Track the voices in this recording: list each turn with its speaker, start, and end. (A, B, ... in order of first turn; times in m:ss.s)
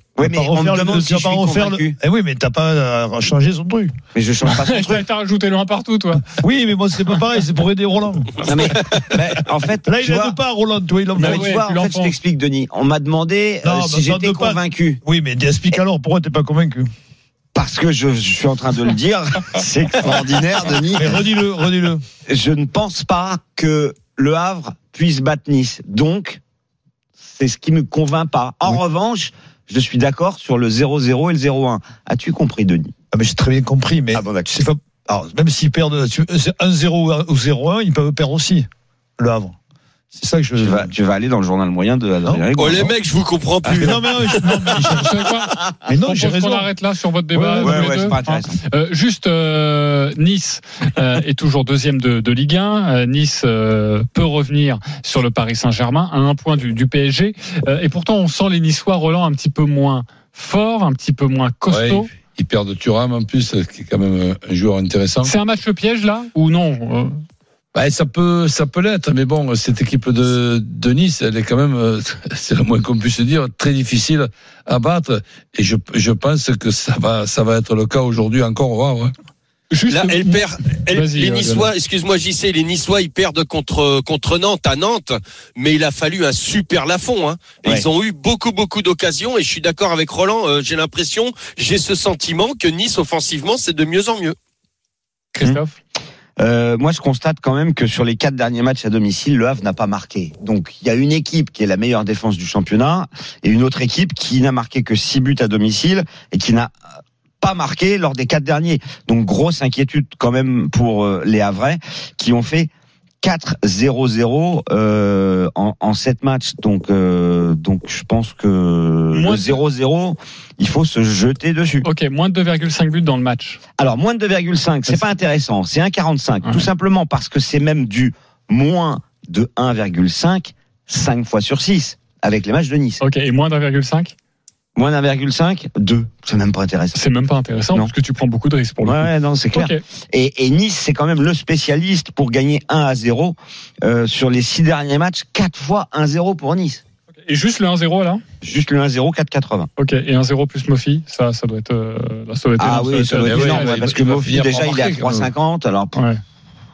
0:00.2-0:02.0 A
0:00.2-0:03.9 B
0:04.1-0:05.0 A
0:04.4-0:06.3 C
0:06.4-0:08.5 B
0:08.4-0:10.4 A
0:09.8-0:11.6 B
0:11.2-0:12.1 C
0:11.2-0:15.0 A
0:13.6-0:16.9 B
0:17.5-0:21.2 A
0:20.9-0:22.0 B
0:22.3-0:26.4 A
0:27.2-0:32.9 A
0:33.1-0:38.7 B
0:34.1-0:34.5 A
0:39.2-0:39.6 B
0:40.1-0:40.9 B
0:40.6-0:43.0 A
0:42.6-0:44.6 D
0:43.7-0:45.3 B
0:44.9-1:02.1 C
0:45.8-0:46.7 B
0:47.3-0:48.1 B
0:47.6-0:48.5 A
1:01.7-1:05.3 E
1:05.2-1:07.2 C
1:07.7-1:19.1 E
1:19.7-1:21.7 C
1:19.9-1:34.4 D
1:35.3-1:35.8 C
1:36.4-1:46.7 A
1:47.4-1:52.7 A
1:53.2-2:01.8 A
1:59.1-1:59.6 C
2:01.8-2:03.6 C
2:03.8-2:13.0 A
2:13.0-2:14.1 C
2:14.8-2:17.0 A
2:16.9-2:19.8 C
2:18.8-2:26.8 A
2:27.3-2:28.2 C
2:28.4-2:29.7 A
2:29.8-2:33.9 C
2:32.6-2:36.0 A
2:33.2-2:35.3 E
2:36.0-2:36.2 C